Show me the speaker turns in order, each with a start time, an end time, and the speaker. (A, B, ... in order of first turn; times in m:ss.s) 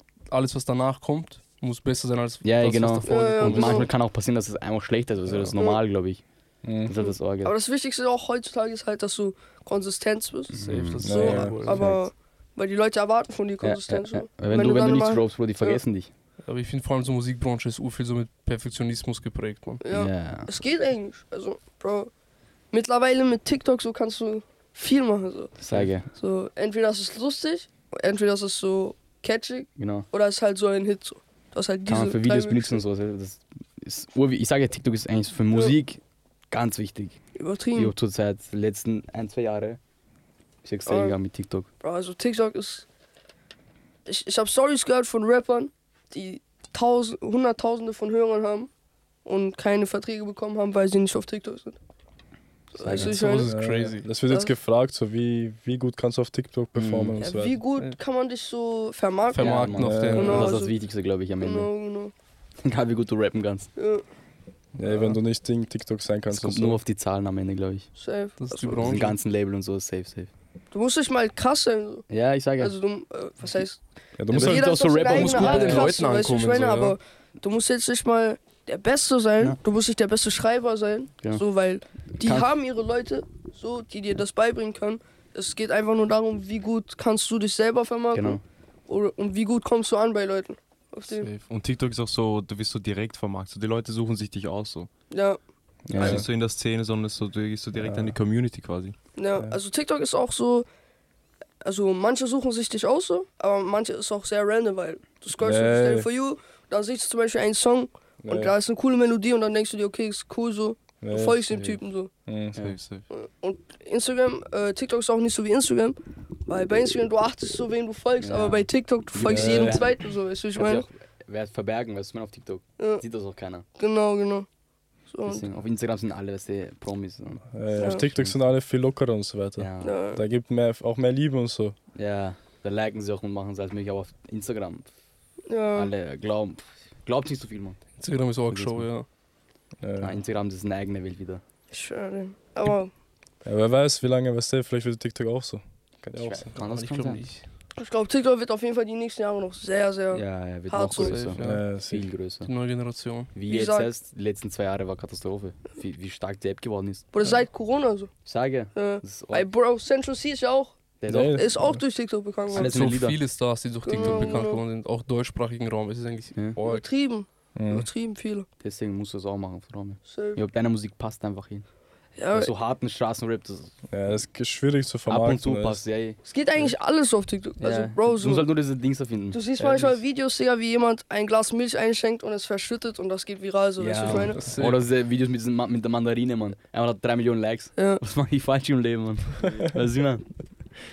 0:00.3-0:03.9 A
0:02.4-0:06.2 B
0:03.0-0:03.9 C
0:06.6-0:07.0 D
0:06.8-0:07.5 B
0:07.4-0:15.8 C
0:10.5-0:12.0 B
0:10.6-0:11.9 A
0:11.0-0:11.8 D
0:13.6-0:16.1 B
0:16.4-0:19.8 A
0:19.8-0:22.1 C
0:19.9-0:20.5 B
0:22.7-0:32.8 C
0:25.6-0:26.1 B
0:29.8-0:30.1 B
0:31.9-0:37.2 B
0:37.4-0:37.9 C
0:37.8-0:39.8 B
0:40.6-0:41.7 B
0:40.9-0:41.2 C
0:41.8-0:42.9 C
0:44.1-0:48.7 C
0:49.2-0:51.8 C
0:52.7-0:53.5 C
0:52.8-0:53.4 B
0:52.9-0:54.1 A
0:53.4-0:57.6 D
0:54.3-0:54.5 C
0:56.8-0:57.2 B
0:57.2-1:00.8 C
0:59.3-1:00.5 A
0:59.4-1:01.7 B
0:59.8-1:00.5 D
1:01.4-1:02.1 C
1:02.6-1:03.7 B
1:03.8-1:04.0 C
1:04.8-1:06.8 D
1:06.3-1:07.9 B
1:08.0-1:09.0 C
1:08.4-1:09.2 A
1:08.8-1:10.3 B
1:10.7-1:12.1 C
1:12.1-1:12.8 B
1:12.6-1:31.3 C
1:14.2-1:15.0 D
1:14.3-1:15.9 B
1:15.1-1:17.0 A
1:22.2-1:22.5 B
1:28.1-1:28.4 B
1:31.3-1:34.9 E
1:35.1-1:35.4 C
1:35.9-1:36.2 B
1:35.9-1:36.3 D
1:36.0-1:39.0 E
1:37.8-1:38.2 D
1:39.2-1:40.7 C
1:41.6-1:52.1 C
1:45.4-1:46.1 D
1:48.2-1:48.6 D
1:51.0-1:51.7 D
1:52.3-1:52.7 D
1:52.6-1:53.1 E
1:53.1-1:56.0 C
1:56.5-2:00.9 C
1:58.2-2:03.6 B
1:59.2-1:59.9 D
2:03.8-2:04.5 C
2:05.1-2:05.4 C
2:05.3-2:08.4 B
2:07.5-2:11.8 D
2:07.8-2:08.1 C
2:09.6-2:10.0 B
2:09.8-2:10.2 C
2:12.0-2:14.9 B
2:15.5-2:15.9 C
2:15.7-2:17.8 B
2:18.0-2:19.1 A
2:18.5-2:18.9 B
2:19.8-2:20.2 D
2:20.0-2:21.4 B
2:21.7-2:22.9 C
2:23.4-2:26.5 D
2:26.2-2:27.2 B
2:26.5-2:27.4 A
2:27.8-2:31.2 C
2:30.1-2:32.5 B
2:31.0-2:31.6 A
2:31.4-2:32.1 D
2:32.4-2:33.3 A
2:33.3-2:37.1 B
2:33.5-2:33.9 C
2:37.1-2:38.1 C
2:38.2-2:39.5 B
2:38.7-2:42.8 C
2:41.0-2:41.5 B
2:41.1-2:41.8 D
2:42.5-2:43.2 B
2:42.5-2:46.9 A
2:43.8-2:44.6 C
2:44.0-2:44.4 B
2:46.6-2:48.5 C
2:47.6-2:47.9 D
2:48.6-2:51.7 B
2:50.0-2:50.4 C
2:52.2-2:52.5 C
2:52.3-2:53.7 B
2:53.9-2:55.8 D
2:55.1-2:56.2 B
2:56.2-2:58.5 C
2:57.6-3:00.0 B
2:59.3-3:04.4 C
3:03.8-3:10.3 B
3:04.1-3:04.8 A
3:07.8-3:08.0 C